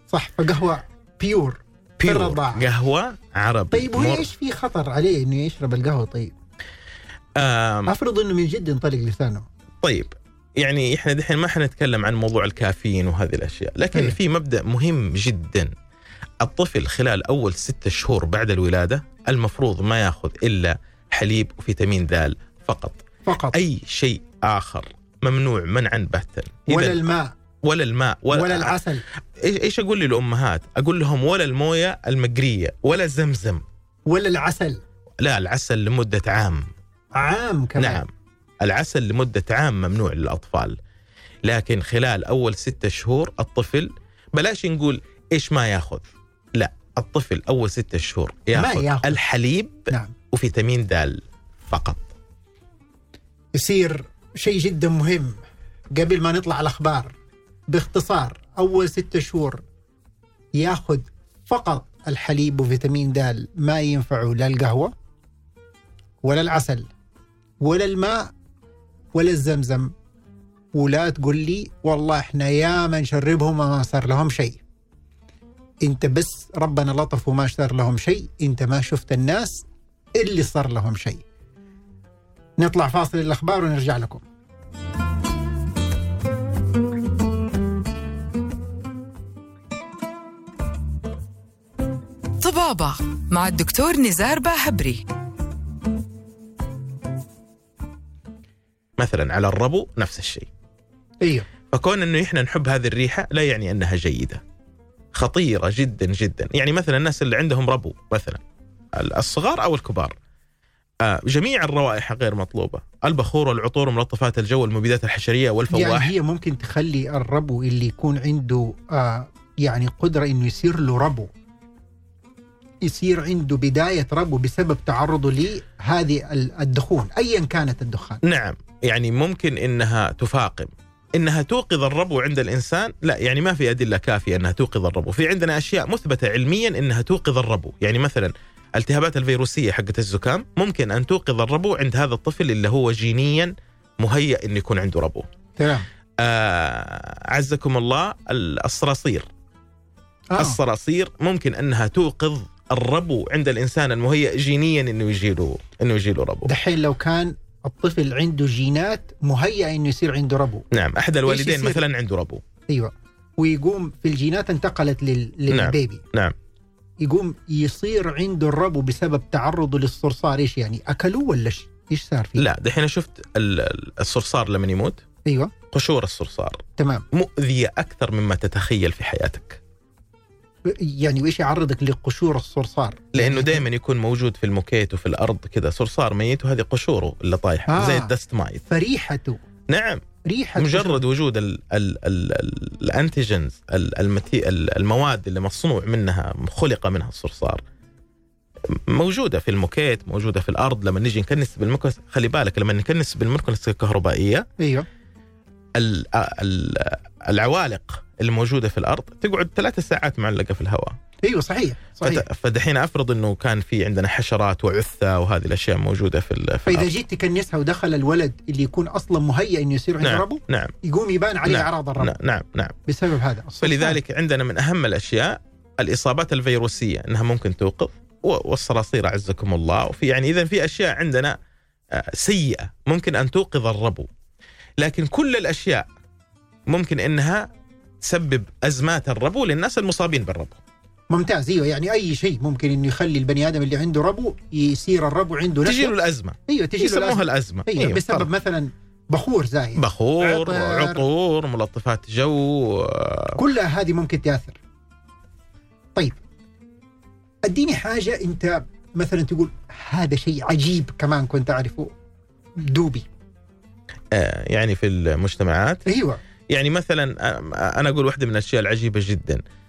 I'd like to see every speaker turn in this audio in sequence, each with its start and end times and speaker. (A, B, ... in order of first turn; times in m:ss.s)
0:00.1-0:02.6 A
0:02.0-0:04.3 B
0:03.7-0:06.3 A
0:07.4-0:07.9 B
0:07.9-0:09.4 A
0:09.8-0:15.7 B
0:16.4-0:27.0 B
0:23.3-0:23.6 A
0:26.7-0:27.3 A
0:27.6-0:28.8 B
0:28.3-0:29.0 A
0:29.4-0:33.6 B
0:34.1-0:34.8 A
0:35.2-0:36.7 B
0:37.2-0:38.0 A
0:37.8-0:38.1 B
0:38.6-0:40.8 B
0:41.4-0:52.1 B
0:48.5-0:49.2 A
0:53.6-0:55.4 A
0:55.9-0:57.1 A
0:57.7-0:59.6 A
1:00.6-1:04.9 A
1:06.2-1:06.9 A
1:07.6-1:08.3 A
1:09.1-1:09.9 A
1:10.7-1:14.6 A
1:15.8-1:21.2 A
1:22.6-1:24.2 A
1:32.4-1:35.0 C
1:39.0-1:40.5 B
1:41.2-1:41.5 A
1:41.7-1:44.4 B
1:45.1-1:48.4 B
1:48.9-1:50.2 B
1:51.0-1:56.1 B
1:55.7-2:01.3 A
2:02.9-2:08.2 A
2:08.2-2:25.3 B
2:25.6-2:25.9 A
2:26.2-2:29.3 B
2:30.3-2:30.6 A
2:30.4-2:36.5 B
2:36.4-2:40.6 A
2:40.7-2:42.4 B
2:41.3-2:41.8 A
2:42.7-2:46.0 A
2:45.5-2:46.4 B
2:47.0-2:52.4 A
2:52.4-2:55.0 B
2:55.3-2:55.5 A
2:55.7-2:59.6 B
2:56.8-2:57.0 A
3:00.7-3:03.6 A
3:03.1-3:08.6 B
3:07.7-3:08.1 A
3:08.7-3:09.4 A
3:09.7-3:10.0 B
3:10.2-3:11.0 A
3:10.6-3:17.6 B
3:18.7-3:24.5 B
3:24.6-3:24.9 A
3:25.8-3:30.9 B
3:31.2-3:32.2 A
3:32.0-3:36.9 B
3:36.6-3:42.1 A
3:40.0-3:40.8 B
3:41.4-3:42.8 B
3:42.9-3:44.0 A
3:43.6-3:51.4 B
3:51.9-3:54.1 B
3:54.8-3:55.9 B
3:56.7-3:57.5 B
3:58.0-4:00.6 B
4:01.1-4:05.9 A
4:05.6-4:08.3 B
4:06.5-4:11.0 A
4:09.8-4:13.4 B
4:13.4-4:14.6 A
4:17.4-4:21.9 A
4:22.6-4:23.1 A
4:24.1-4:25.9 B
4:25.9-4:26.2 A
4:26.5-4:29.4 B